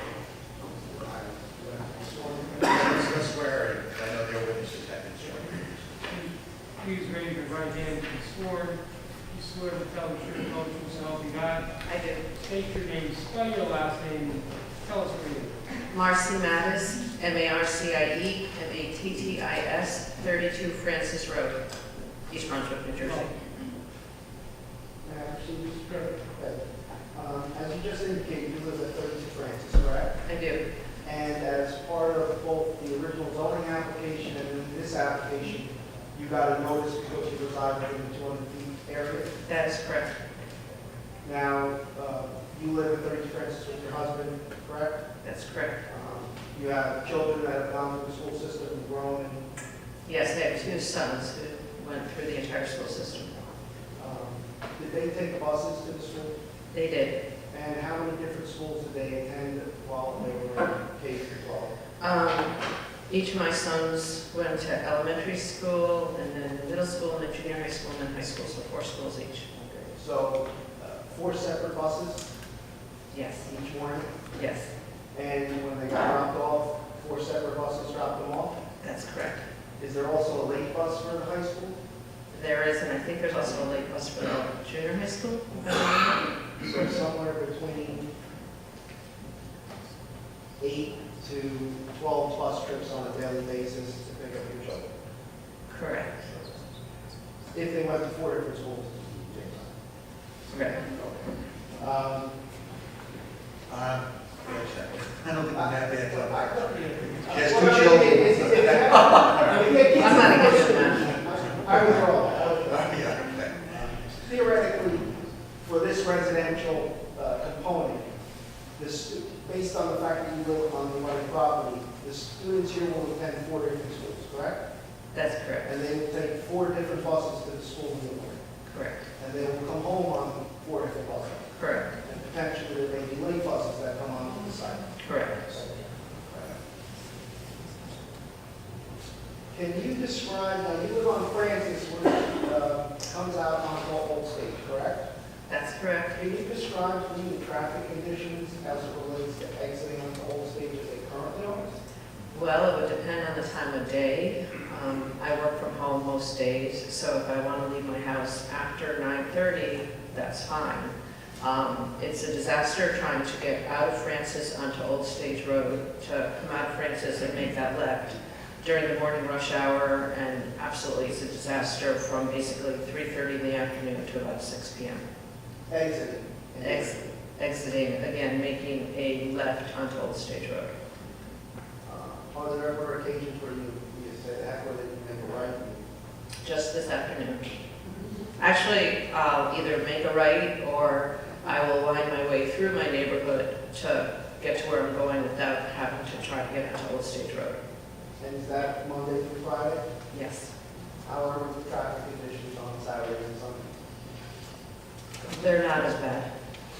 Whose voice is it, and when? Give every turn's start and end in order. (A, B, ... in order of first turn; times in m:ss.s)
0:00.6-0:03.0 A
0:02.6-0:05.9 B
0:06.1-0:11.7 C
0:11.8-0:12.2 D
0:12.3-0:15.6 C
0:15.9-0:21.6 D
0:22.3-0:23.3 D
0:25.0-0:30.2 A
0:30.2-0:30.6 D
0:31.0-0:39.3 A
0:39.4-0:40.1 D
0:41.2-0:45.0 A
0:45.2-0:45.8 D
0:45.9-0:49.4 A
0:50.1-0:53.3 D
0:54.0-0:56.4 A
0:56.7-0:57.2 D
0:57.5-1:01.7 A
1:02.0-1:02.6 D
1:03.1-1:09.9 D
1:09.9-1:12.2 A
1:13.1-1:13.5 D
1:13.4-1:14.2 A
1:14.3-1:14.7 D
1:15.1-1:18.6 A
1:18.8-1:19.4 D
1:19.8-1:21.8 A
1:22.3-1:26.3 D
1:26.6-1:28.1 A
1:30.6-1:34.9 A
1:35.7-1:36.3 D
1:37.5-1:39.8 A
1:40.5-1:40.8 D
1:40.9-1:42.3 A
1:43.7-1:46.5 B
1:45.5-1:53.0 A
1:47.0-1:54.0 B
1:48.9-1:51.1 D
1:53.7-1:55.1 A
1:55.6-1:58.1 A
1:58.8-2:04.6 A
2:05.1-2:05.7 D
2:05.6-2:08.4 A
2:08.7-2:09.0 D
2:09.2-2:16.6 A
2:11.6-2:11.9 D
2:15.0-2:15.4 D
2:19.5-2:25.1 A
2:25.5-2:26.2 D
2:26.1-2:31.8 A
2:32.3-2:55.0 D
2:55.7-2:57.1 A
2:56.6-3:00.8 D
3:01.8-3:05.8 A
3:06.4-3:07.7 D
3:08.4-3:17.6 D
3:18.2-3:19.9 A
3:20.1-3:20.5 D
3:21.0-3:23.7 A
3:25.2-3:26.3 D